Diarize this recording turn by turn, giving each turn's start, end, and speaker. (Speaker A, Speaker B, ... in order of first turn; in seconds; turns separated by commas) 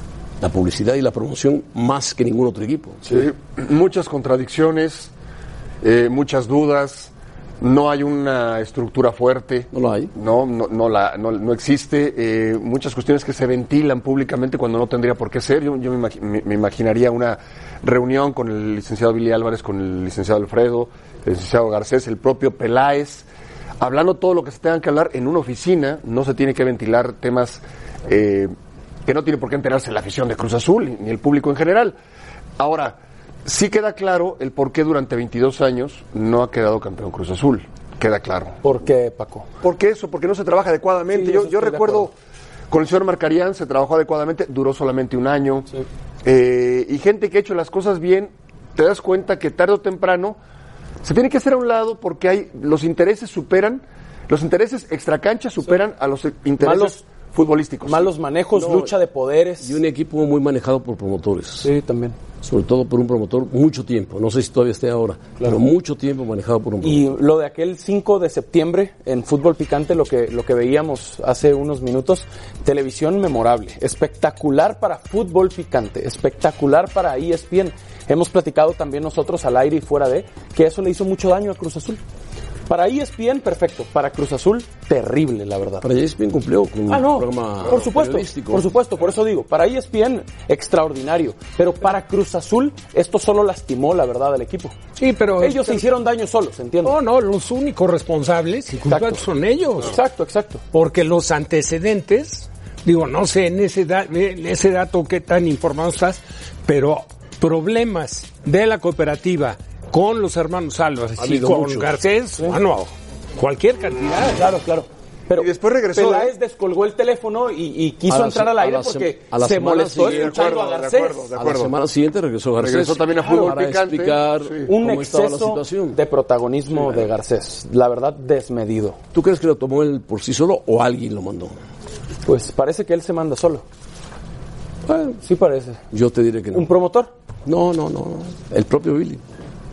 Speaker A: 0.4-3.1, Speaker B: 3.1-5.1, Speaker B: 5.8-23.3, Speaker A: 9.7-10.1, Speaker B: 23.8-28.5, Speaker B: 29.1-32.0, Speaker B: 32.6-38.6, Speaker C: 38.6-39.5, Speaker B: 39.6-42.1, Speaker C: 41.1-42.1, Speaker B: 42.7-45.7, Speaker B: 46.2-50.4, Speaker B: 51.0-58.1, Speaker C: 56.6-57.0, Speaker C: 57.9-59.8, Speaker A: 58.5-58.9, Speaker A: 59.6-61.7, Speaker C: 61.6-62.2, Speaker A: 62.4-67.1, Speaker C: 66.8-82.0, Speaker C: 82.7-85.9, Speaker A: 85.8-88.7, Speaker C: 86.9-94.8, Speaker D: 95.0-95.8, Speaker C: 95.4-97.0, Speaker D: 96.8-100.0, Speaker C: 98.8-99.3, Speaker C: 99.8-100.6, Speaker D: 100.7-114.4, Speaker A: 111.2-112.0, Speaker C: 114.3-121.3, Speaker B: 115.3-116.3, Speaker A: 118.1-120.6, Speaker B: 120.0-121.8, Speaker A: 121.3-126.0, Speaker B: 122.6-124.7, Speaker C: 123.2-123.5, Speaker C: 124.7-129.0, Speaker A: 129.1-131.6, Speaker C: 132.2-133.7, Speaker C: 134.9-135.8, Speaker A: 135.9-136.7, Speaker C: 136.5-137.1, Speaker A: 137.5-139.2